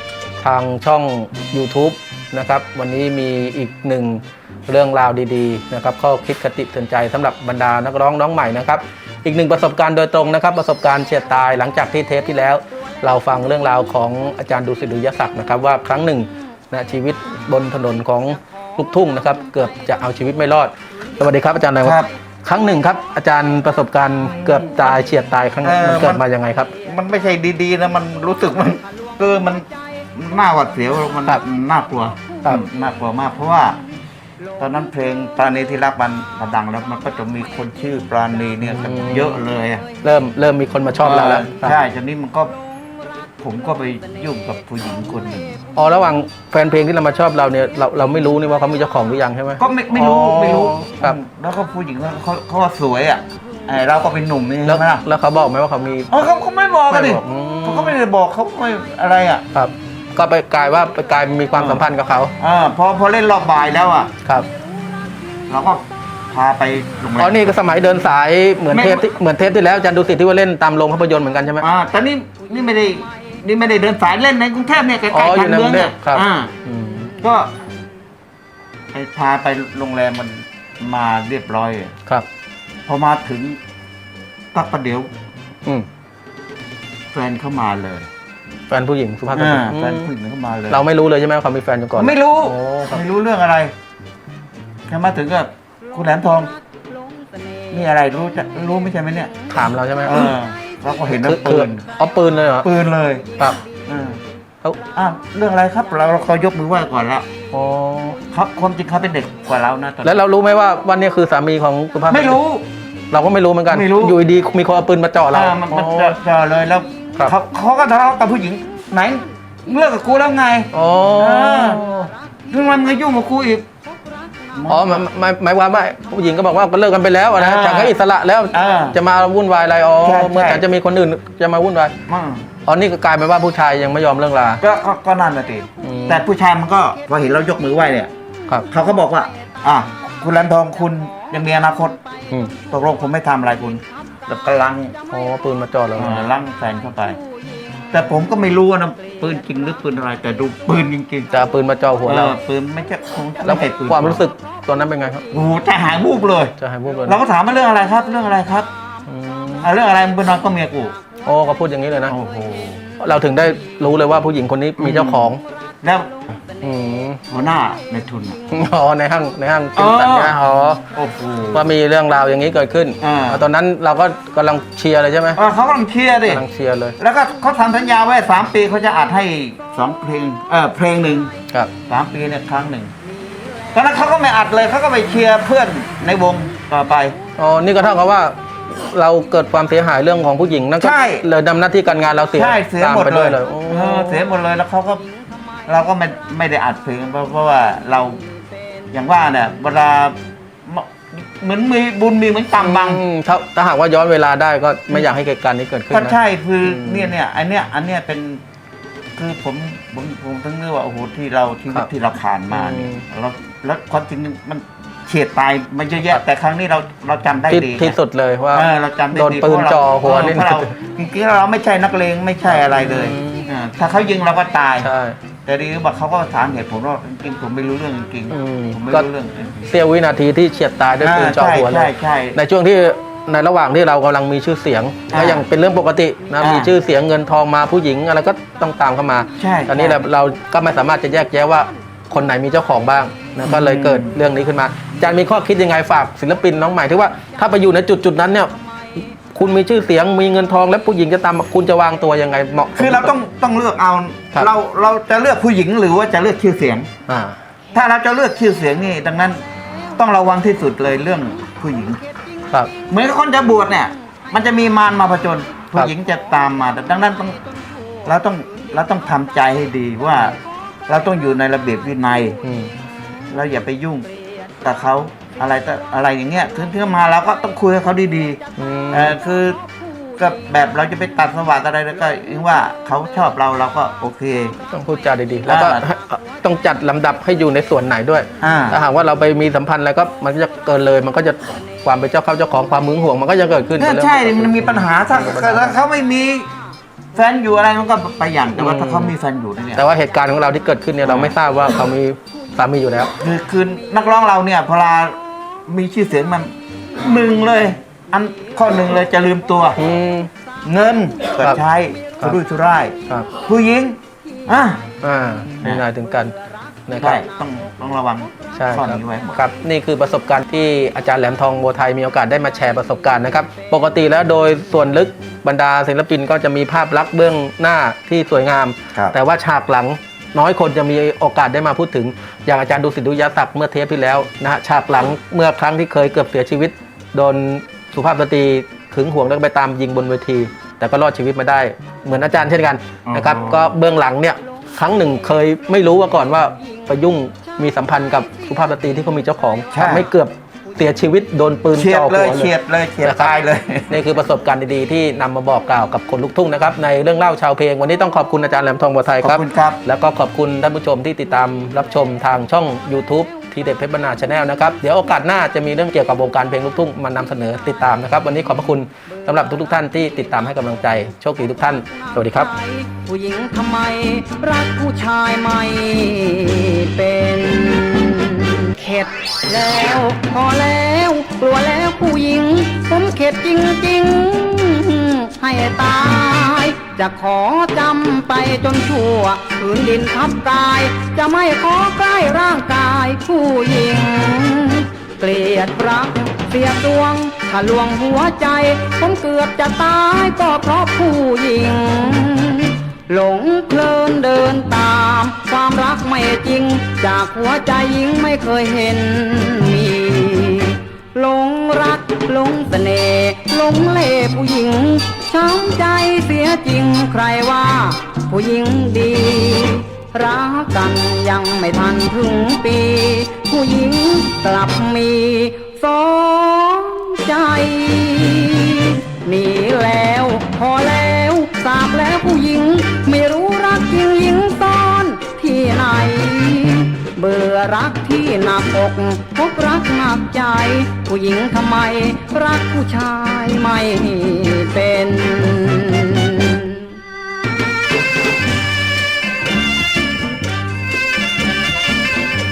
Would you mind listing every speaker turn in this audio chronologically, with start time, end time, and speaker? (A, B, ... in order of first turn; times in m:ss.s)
0:00.4-0:26.7 A
0:21.8-0:22.1 B
0:25.6-0:26.2 B
0:26.8-0:33.8 B
0:34.6-0:39.8 B
0:38.6-0:39.4 A
0:40.0-0:41.8 A
0:41.0-0:42.5 B
0:43.4-0:45.6 B
0:45.8-0:51.2 A
0:49.6-0:55.0 B
0:54.6-0:56.1 A
0:56.1-0:59.4 B
0:56.9-0:58.0 A
0:59.5-1:02.3 A
1:01.6-1:01.8 B
1:02.4-1:04.1 B
1:05.5-1:07.6 B
1:07.2-1:11.6 A
1:08.7-1:09.0 B
1:11.6-1:16.5 B
1:15.1-1:17.1 A
1:17.2-1:17.5 B
1:18.9-1:21.9 B
1:22.9-1:23.6 B
1:24.5-1:25.1 B
1:27.1-1:28.1 B
1:28.7-1:30.1 A
1:29.3-1:30.8 B
1:30.7-1:33.0 A
1:31.9-1:33.7 B
1:34.9-1:36.5 B
1:37.7-1:39.3 B
1:39.5-1:40.3 A
1:40.0-1:41.9 B
1:41.1-1:42.7 A
1:42.6-1:44.2 B
1:44.9-1:47.2 B
1:47.5-1:48.2 A
1:48.3-1:50.2 B
1:50.0-1:52.4 A
1:52.1-1:52.6 B
1:53.1-1:56.2 A
1:53.7-1:54.2 B
1:55.3-2:01.8 B
2:00.7-2:02.1 A
2:02.5-2:03.6 B
2:04.5-2:05.0 B
2:04.7-2:11.9 A
2:07.3-2:08.0 B
2:08.5-2:09.0 B
2:10.0-2:10.6 B
2:12.1-2:12.5 B
2:12.6-2:14.6 A
2:14.6-2:18.1 B
2:15.8-2:16.2 A
2:18.7-2:22.0 B
2:22.7-2:24.9 B
2:25.1-2:26.2 A
2:26.0-2:27.2 B
2:27.9-2:31.3 B
2:31.3-2:32.4 A
2:32.0-2:34.2 B
2:33.4-2:35.2 A
2:35.3-2:36.5 B
2:36.6-2:37.2 A
2:37.0-2:38.7 B
2:39.1-2:39.7 A
2:39.6-2:40.9 B
2:41.2-2:42.1 A
2:42.1-2:42.8 B
2:43.0-2:45.4 A
2:44.8-2:46.1 B
2:46.6-2:47.2 A
2:47.3-2:48.4 B
2:48.5-2:50.8 A
2:49.8-2:50.4 B
2:50.9-2:51.6 B
2:51.5-2:55.4 A
2:53.0-2:53.4 B
2:55.4-2:56.4 B
2:56.3-2:57.0 A
2:57.0-3:01.3 B
3:01.9-3:02.9 B
3:03.7-3:07.2 B
3:07.4-3:14.2 A
3:10.8-3:11.2 B
3:12.3-3:15.0 B
3:15.7-3:18.2 B
3:18.9-3:23.0 B
3:22.6-3:27.1 A
3:25.9-3:28.4 B
3:29.2-3:38.0 B
3:32.5-3:33.0 A
3:37.5-3:40.7 A
3:38.5-3:44.9 B
3:42.5-3:43.5 A
3:44.8-3:45.2 A
3:45.4-3:49.6 B
3:48.3-3:49.0 A
3:49.7-4:08.5 A
3:51.0-3:52.4 B
3:55.1-3:55.4 B
3:56.4-3:56.7 B
3:59.4-4:00.0 B
4:03.4-4:04.2 B
4:09.3-4:13.1 A
4:12.8-4:16.9 B
4:17.1-4:17.4 A
4:17.7-4:19.4 B
4:20.0-4:22.0 B
4:22.9-4:27.4 B
4:28.0-4:30.4 B
4:30.9-4:32.4 B
4:32.4-4:32.7 A
4:33.3-4:34.1 B
4:34.6-4:38.4 B
4:38.6-4:39.2 A
4:38.9-4:39.6 B
4:40.2-4:44.5 B
4:44.7-4:55.8 A
4:45.5-4:45.8 B
4:48.4-4:48.8 B
4:53.8-4:56.5 B
4:57.1-4:59.8 B
4:58.6-4:59.1 A
4:59.8-5:03.1 A
5:01.0-5:01.4 B
5:03.2-5:09.8 B
5:09.8-5:10.3 A
5:10.6-5:14.8 B
5:15.0-5:16.3 A
5:16.9-5:17.2 A
5:17.0-5:19.4 B
5:18.5-5:52.5 A
5:43.0-5:43.7 B
5:49.7-5:50.1 B
5:51.7-5:54.0 B
5:53.0-5:53.3 A
5:53.9-6:12.5 A
5:59.2-5:59.8 B
6:12.2-7:27.0 C